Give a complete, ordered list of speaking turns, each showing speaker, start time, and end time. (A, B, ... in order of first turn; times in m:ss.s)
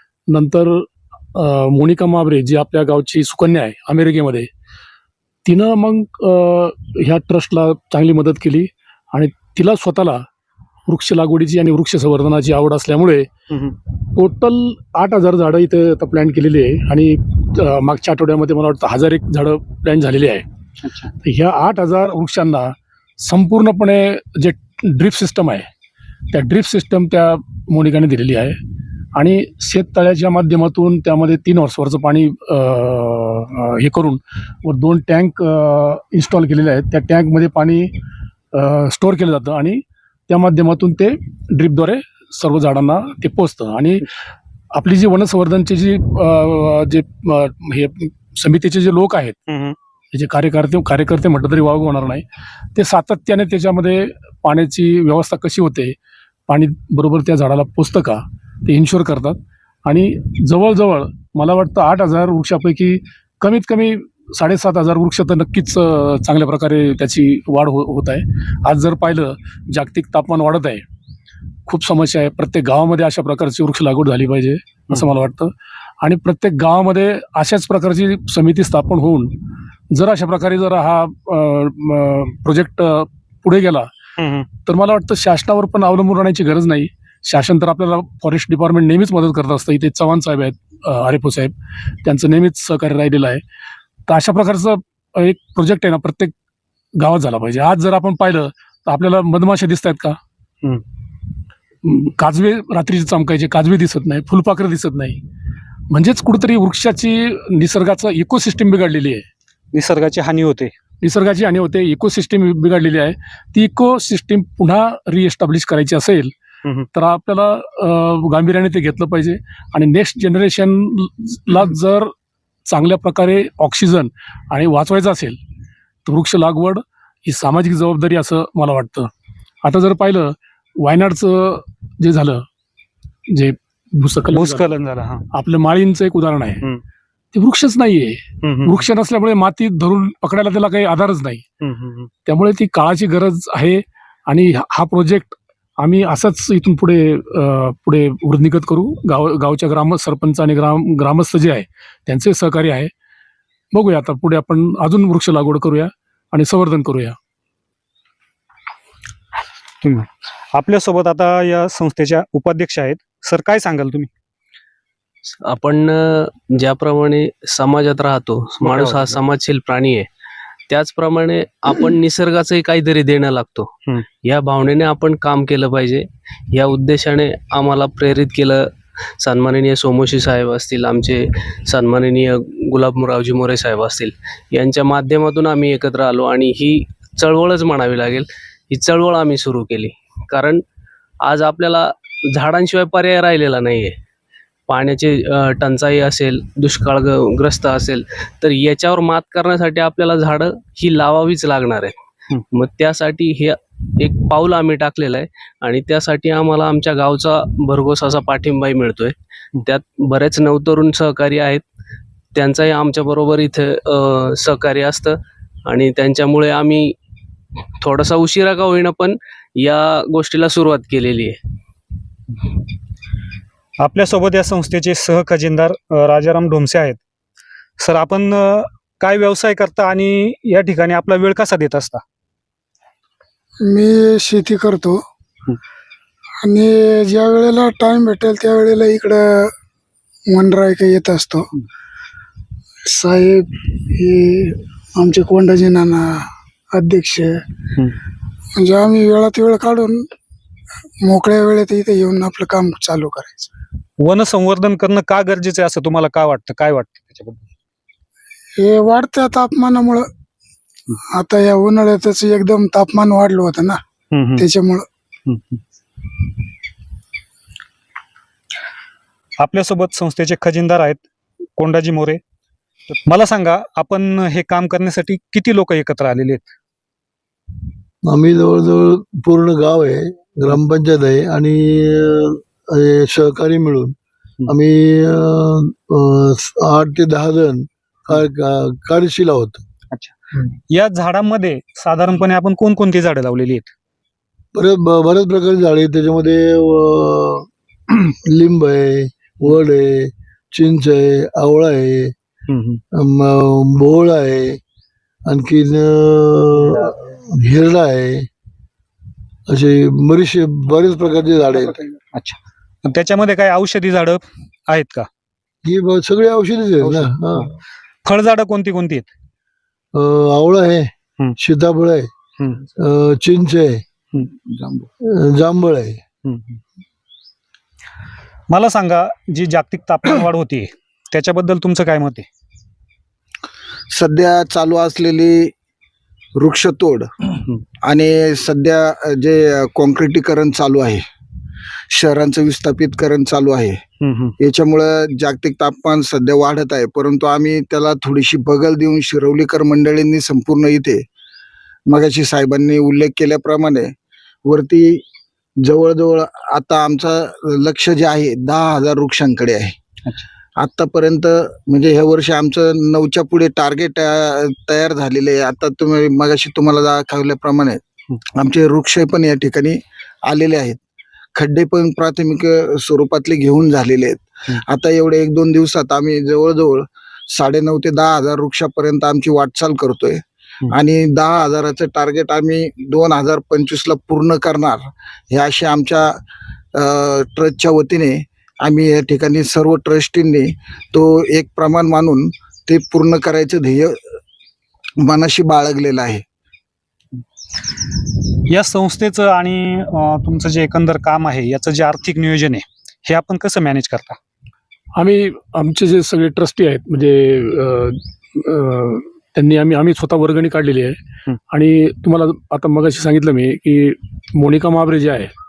0:00.3-0:04.5 A
0:05.4-0:10.2 A
0:10.9-0:13.3 A
0:13.5-0:13.8 B
0:14.2-0:20.4 A
0:20.8-0:21.1 B
0:21.2-0:25.6 A
0:26.3-0:28.6 A
0:29.2-0:37.9 A
0:38.5-0:44.1 A
0:44.7-0:49.4 A
0:49.5-0:49.8 B
0:50.1-0:52.2 A
0:52.7-0:55.9 A
0:56.5-1:10.8 A
1:11.7-1:19.3 A
1:19.9-1:23.9 A
1:24.2-1:24.4 B
1:24.6-1:31.5 A
1:32.0-1:33.4 A
1:34.1-1:36.3 A
1:37.0-1:40.2 A
1:41.8-1:45.2 A
1:45.9-1:49.2 A
1:49.7-1:50.7 B
1:51.0-1:56.3 A
1:56.9-2:02.1 A
2:02.7-2:05.4 A
2:06.0-2:09.1 A
2:09.6-2:12.4 A
2:13.3-2:14.7 A
2:14.3-2:15.2 B
2:15.3-2:16.6 A
2:17.3-2:21.4 A
2:18.4-2:18.9 B
2:21.6-2:22.1 B
2:22.2-2:32.9 A
2:33.7-2:37.2 A
2:39.8-2:44.1 B
2:45.4-2:50.1 C
2:48.6-2:49.2 B
2:50.7-2:53.7 C
2:54.2-2:58.7 C
2:59.2-3:10.6 C
3:11.2-3:13.9 C
3:14.7-3:22.0 C
3:22.5-3:31.6 C
3:32.3-3:36.9 C
3:37.8-3:41.4 C
3:43.8-3:47.0 B
3:47.8-3:52.0 B
3:53.6-3:55.0 D
3:56.4-3:59.5 D
4:00.3-4:01.4 D
4:02.9-4:07.4 D
4:08.5-4:10.1 D
4:11.0-4:13.5 D
4:14.0-4:17.5 B
4:18.6-4:20.1 D
4:21.0-4:23.8 D
4:24.1-4:24.4 B
4:24.4-4:24.8 D
4:25.2-4:25.6 B
4:29.4-4:31.0 B
4:31.6-4:32.2 B
4:32.9-4:36.5 B
4:38.0-4:49.6 E
4:50.7-4:53.7 B
4:54.5-4:57.5 E
4:58.2-5:02.1 E
5:02.5-5:02.8 B
5:02.9-5:04.6 E
5:05.2-5:08.3 E
5:09.5-5:11.8 E
5:12.1-5:15.1 B
5:15.6-5:17.5 E
5:16.8-5:17.1 B
5:18.0-5:19.1 B
5:19.9-5:22.1 E
5:22.8-5:23.8 E
5:24.4-5:24.8 F
5:25.0-5:26.0 E
5:26.2-5:26.6 B
5:28.5-5:32.3 B
5:33.9-5:35.5 F
5:36.4-5:37.1 F
5:37.8-5:41.0 F
5:41.9-5:43.8 F
5:44.0-5:44.3 B
5:44.4-5:51.0 F
5:51.9-5:53.9 F
5:54.4-5:55.0 F
5:55.6-5:59.7 F
6:00.6-6:07.8 F
6:08.4-6:10.8 F
6:11.4-6:26.2 F
6:26.8-6:34.0 F
6:35.0-6:36.2 F
6:38.5-6:44.2 B
6:45.0-6:51.0 A
6:51.5-6:55.3 A